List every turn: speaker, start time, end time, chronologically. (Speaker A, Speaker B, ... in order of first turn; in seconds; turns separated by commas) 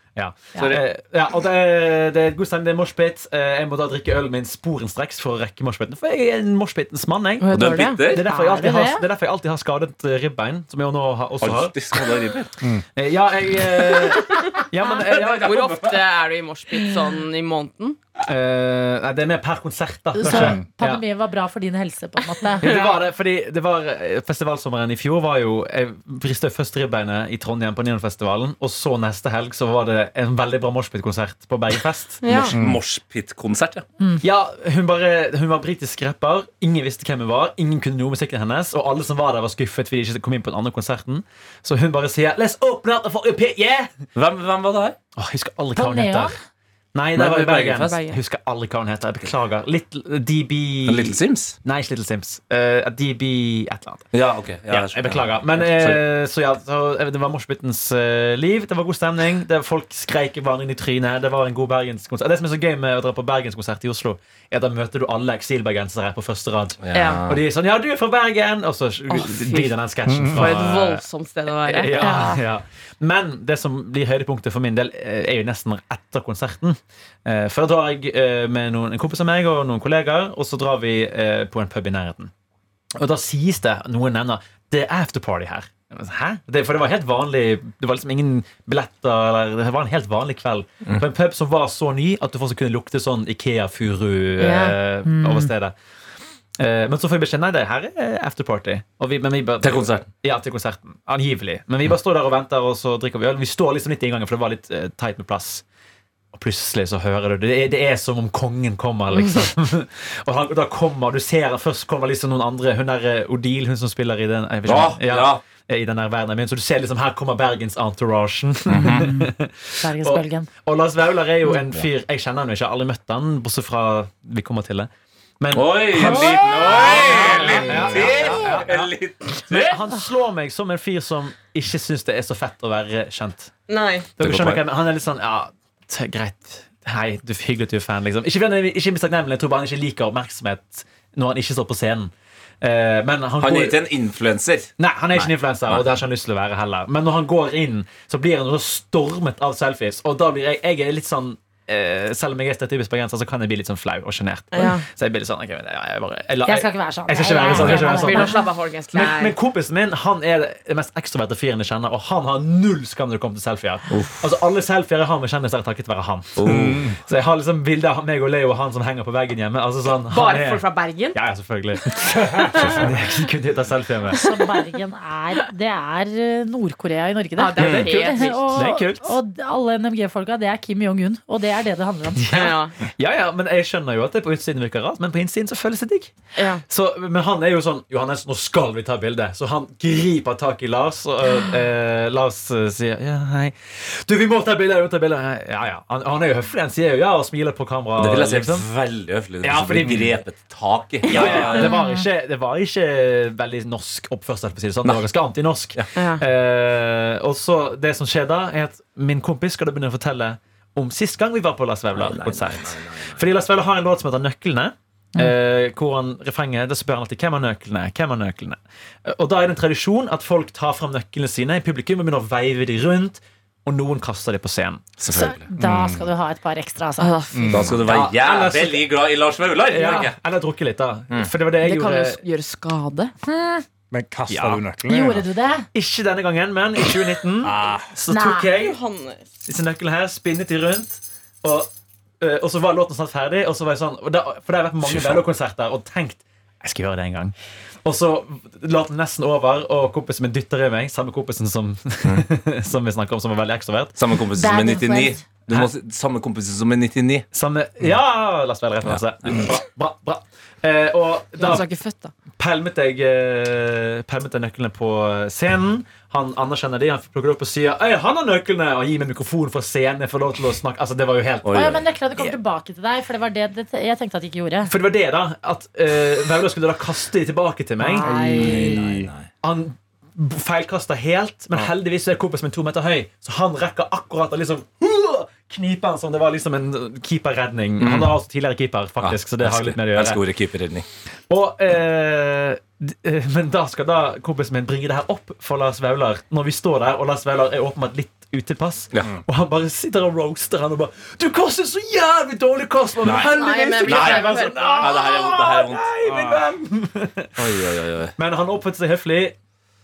Speaker A: 0.2-11.8, Speaker B: 0.6-0.8, Speaker C: 7.4-8.1, Speaker B: 7.5-8.2, Speaker D: 8.2-9.1, Speaker B: 11.4-12.6, Speaker A: 12.9-15.7, Speaker C: 14.3-18.0, Speaker B: 15.5-15.9, Speaker A: 18.2-21.0, Speaker D: 20.2-22.8, Speaker E: 20.3-20.7, Speaker A: 22.6-32.5, Speaker C: 22.6-22.9, Speaker C: 32.2-32.6, Speaker B: 32.4-33.9, Speaker E: 32.5-32.8, Speaker D: 34.0-34.2, Speaker A: 34.2-44.0, Speaker B: 44.1-45.0, Speaker A: 45.2-46.3, Speaker D: 45.8-46.3, Speaker A: 46.9-54.1, Speaker B: 47.1-48.0, Speaker C: 47.8-48.2, Speaker B: 50.9-51.6, Speaker B: 54.1-56.0, Speaker A: 54.7-71.0, Speaker B: 66.8-67.4, Speaker C: 66.9-67.2, Speaker C: 69.1-69.7, Speaker E: 70.1-70.5, Speaker C: 70.3-72.2, Speaker A: 71.6-82.3, Speaker D: 72.0-72.4, Speaker A: 83.0-95.8, Speaker C: 94.4-94.8, Speaker D: 95.0-95.5, Speaker A: 96.6-105.6, Speaker B: 99.6-100.1, Speaker A: 106.3-128.9, Speaker B: 114.7-115.5, Speaker B: 118.7-119.1, Speaker D: 118.8-120.5, Speaker B: 125.5-129.8, Speaker D: 126.1-127.0, Speaker E: 127.3-128.2, Speaker A: 129.5-133.5, Speaker C: 133.7-134.1, Speaker A: 134.2-143.8, Speaker B: 134.2-134.6, Speaker B: 143.4-145.8, Speaker A: 144.8-174.2, Speaker C: 154.5-154.9, Speaker D: 156.4-158.4, Speaker C: 157.5-159.3, Speaker B: 163.9-164.2, Speaker B: 166.4-167.0, Speaker E: 166.5-166.9, Speaker C: 170.1-171.2, Speaker C: 172.6-172.8, Speaker D: 174.1-182.5, Speaker C: 177.4-178.6, Speaker B: 177.6-177.9, Speaker A: 177.6-179.2, Speaker A: 182.2-186.1, Speaker C: 182.3-182.8, Speaker C: 186.4-186.6, Speaker A: 186.7-198.7, Speaker B: 198.0-201.7, Speaker A: 199.4-200.2, Speaker E: 199.8-200.1, Speaker A: 201.1-224.9, Speaker D: 201.5-202.1, Speaker C: 205.9-206.2, Speaker B: 211.9-213.1, Speaker B: 225.0-225.5, Speaker D: 225.1-227.2, Speaker E: 225.6-226.1, Speaker C: 227.0-227.8, Speaker E: 227.3-227.8, Speaker B: 227.5-230.2, Speaker A: 227.8-228.9, Speaker A: 229.7-232.2, Speaker C: 231.6-233.1, Speaker D: 233.2-233.7, Speaker E: 233.9-235.2, Speaker A: 234.3-234.7, Speaker D: 234.9-235.7, Speaker A: 235.7-238.8, Speaker E: 237.4-237.9, Speaker D: 238.1-238.5, Speaker C: 238.5-239.2, Speaker A: 239.4-241.7, Speaker A: 242.2-247.3, Speaker B: 244.8-245.2, Speaker A: 247.8-254.0, Speaker B: 254.0-257.3, Speaker D: 254.3-255.2, Speaker A: 257.3-261.7, Speaker B: 258.9-259.4, Speaker C: 261.4-262.1, Speaker A: 262.3-271.7, Speaker B: 271.4-272.4, Speaker D: 271.5-274.7, Speaker A: 274.7-278.1, Speaker D: 277.8-278.6, Speaker C: 278.0-278.5, Speaker E: 278.0-279.1, Speaker B: 278.4-279.3, Speaker A: 279.4-290.2, Speaker B: 287.8-288.1, Speaker B: 289.0-290.9, Speaker A: 291.3-307.6, Speaker B: 298.9-299.2, Speaker B: 303.0-305.9, Speaker C: 303.3-305.0, Speaker B: 307.4-308.1, Speaker A: 308.2-309.4